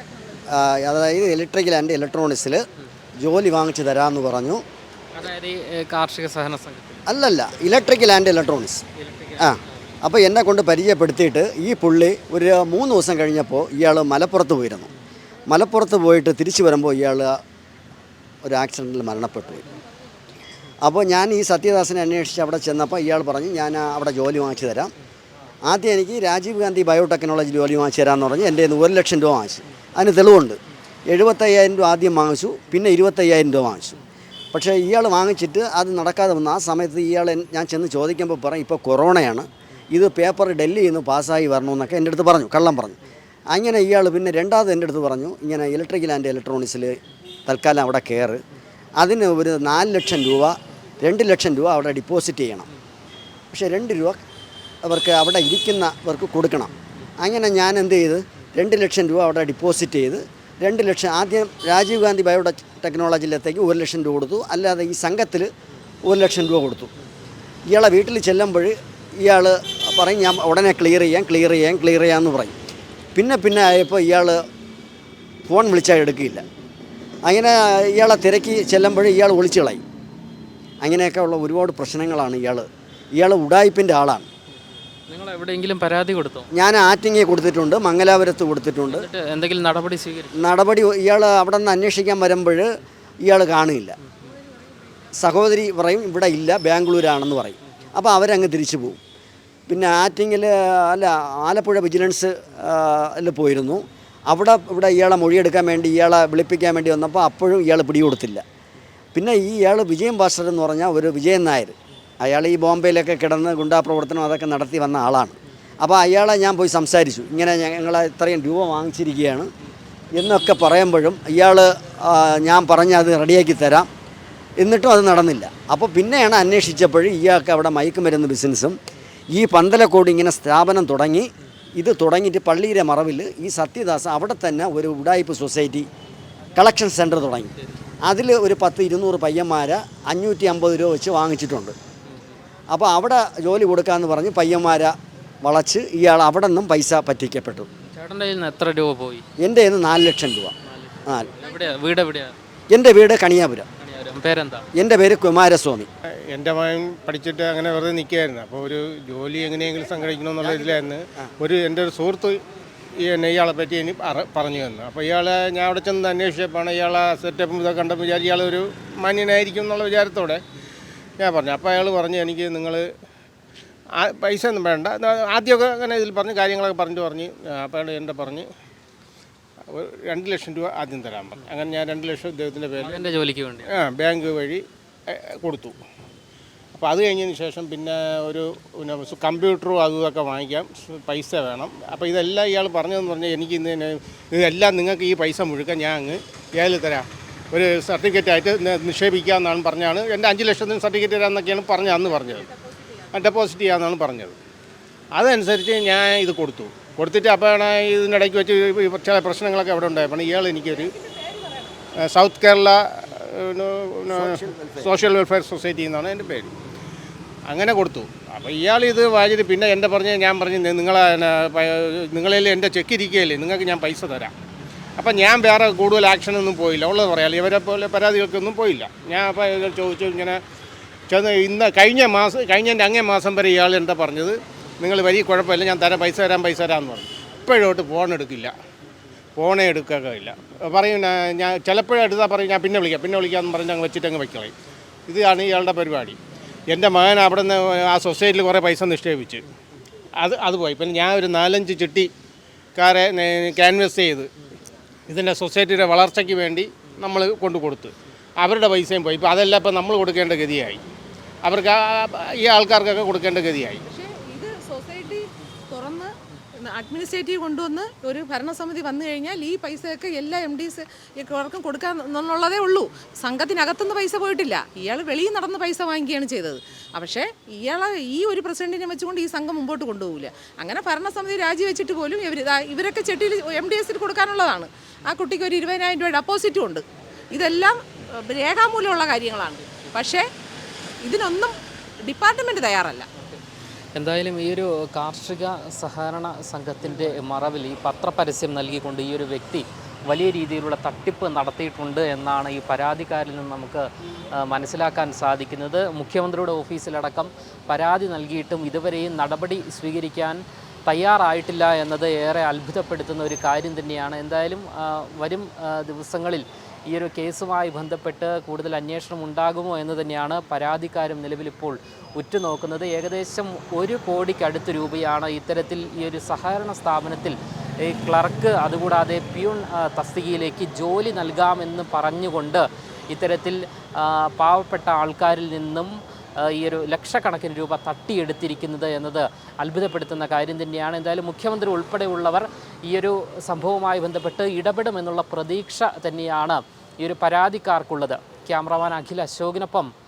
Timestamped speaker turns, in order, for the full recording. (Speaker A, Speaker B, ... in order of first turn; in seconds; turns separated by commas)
Speaker A: 0.5-2.6, Speaker A: 3.2-4.6, Speaker B: 5.1-7.0, Speaker A: 7.0-8.8, Speaker B: 9.0-9.6, Speaker A: 9.4-14.9, Speaker A: 15.5-17.3, Speaker A: 18.4-19.6, Speaker A: 20.8-24.9, Speaker A: 25.6-34.0, Speaker A: 34.5-43.0, Speaker A: 43.5-48.4, Speaker A: 49.0-52.7, Speaker A: 53.5-54.2, Speaker A: 54.8-65.5, Speaker A: 66.0-66.9, Speaker A: 67.7-72.5, Speaker A: 73.1-74.4, Speaker A: 75.5-76.4, Speaker A: 77.2-79.8, Speaker A: 80.8-84.3, Speaker B: 85.1-86.5, Speaker A: 86.5-89.1, Speaker B: 88.9-90.4, Speaker A: 90.3-92.7, Speaker A: 93.2-94.0, Speaker A: 95.2-99.0, Speaker A: 99.7-108.4, Speaker A: 109.1-119.5, Speaker A: 120.1-123.9, Speaker A: 124.6-128.8, Speaker A: 129.3-135.9, Speaker A: 136.5-137.5, Speaker A: 138.0-141.7, Speaker A: 142.7-147.7, Speaker B: 147.8-149.2, Speaker A: 149.4-150.5, Speaker B: 150.6-152.3, Speaker A: 151.0-151.3, Speaker A: 152.7-153.7, Speaker B: 153.8-154.7, Speaker A: 154.7-155.9, Speaker C: 156.3-162.4, Speaker C: 162.9-170.4, Speaker C: 171.2-172.9, Speaker C: 173.9-178.5, Speaker C: 179.7-183.1, Speaker B: 182.8-183.7, Speaker C: 183.7-185.8, Speaker C: 186.7-202.5, Speaker C: 203.1-204.4, Speaker C: 205.1-210.9, Speaker C: 212.0-216.5, Speaker A: 214.1-214.9, Speaker C: 217.5-224.3, Speaker C: 225.0-230.4, Speaker C: 231.1-238.5, Speaker C: 239.3-244.5, Speaker C: 245.1-246.2, Speaker C: 246.7-249.4, Speaker C: 250.2-252.1, Speaker C: 252.8-254.3, Speaker C: 255.1-260.8, Speaker C: 261.4-263.8, Speaker D: 263.9-290.3, Speaker D: 291.0-293.1, Speaker B: 293.9-303.9, Speaker B: 304.4-349.9